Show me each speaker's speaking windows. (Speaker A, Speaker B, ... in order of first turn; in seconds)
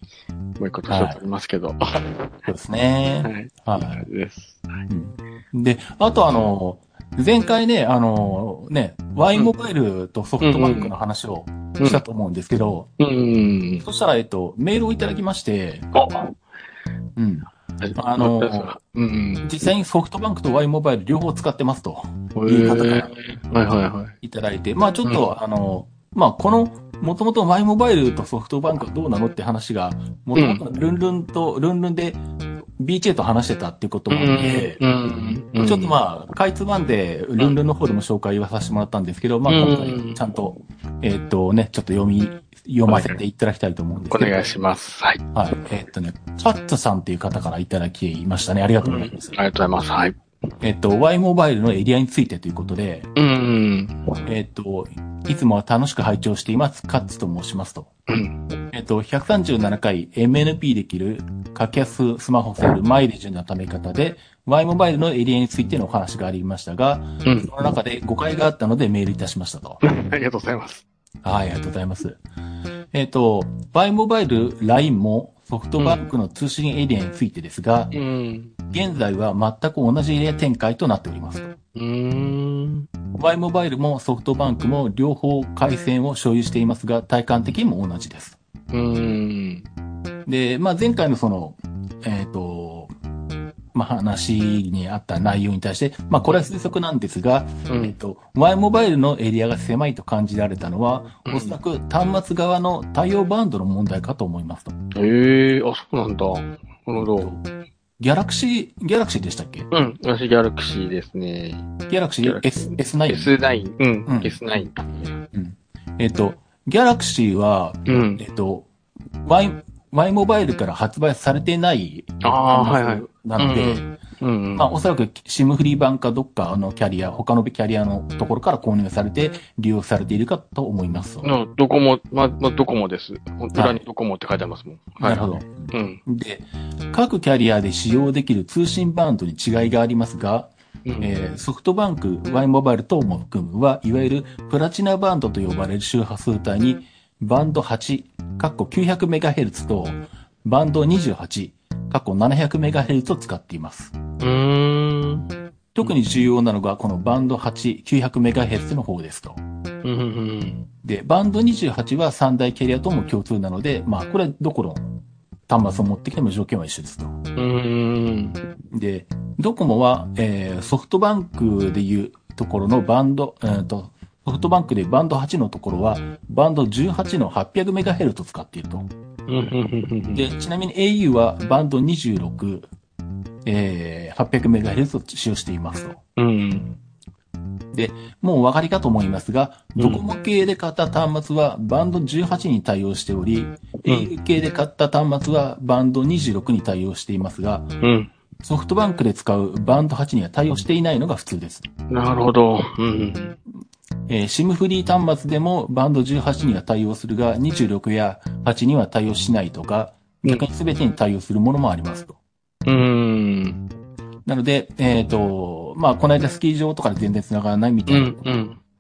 Speaker A: 0.6-2.3, 3.2-4.7, 10.4-10.9, 13.0-13.8, 15.9-16.4, 17.8-19.5, 22.4-24.1, 30.4-30.6, 34.1-35.9, 39.5-40.3, 42.9-43.2, 44.1-45.2, 48.8-50.2, 53.2-54.3, 58.1-58.5, 67.2-67.5, 69.8-70.8, 77.9-78.5, 81.8-82.9, 88.7-89.7, 97.7-98.0, 101.2-101.5, 105.0-107.3, 109.7-111.7, 112.2-115.1, 117.9-118.2, 122.2-124.7, 131.2-136.0, 140.9-141.1, 154.2-155.3, 159.8-160.6, 167.4-168.4, 179.3-180.2, 186.2-186.7, 189.8-190.1, 193.8-194.1, 197.8-198.1, 201.9-203.3, 212.7-213.6, 217.9-218.6
Speaker B: 0.9-1.2, 2.5-4.1, 4.9-12.9, 13.8-15.9, 17.2-18.8, 19.4-23.1, 24.2-32.2, 32.8-34.8, 35.6-44.4, 45.3-49.4, 50.6-53.1, 54.2-57.9, 58.7-69.8, 71.2-72.2, 72.9-77.9, 78.7-81.5, 83.2-88.4, 90.2-92.9, 93.7-104.7, 107.2-107.4, 108.0-109.7, 111.9-113.3, 114.1-114.4, 115.3-118.7, 119.2-123.9, 124.6-131.3, 133.6-133.8, 135.0-153.9, 155.7-159.4, 160.8-164.9, 165.5-167.2, 168.7-178.9, 180.1-182.7, 183.4-186.0, 187.7-197.7, 198.4-201.7, 204.1-212.2, 214.2-218.2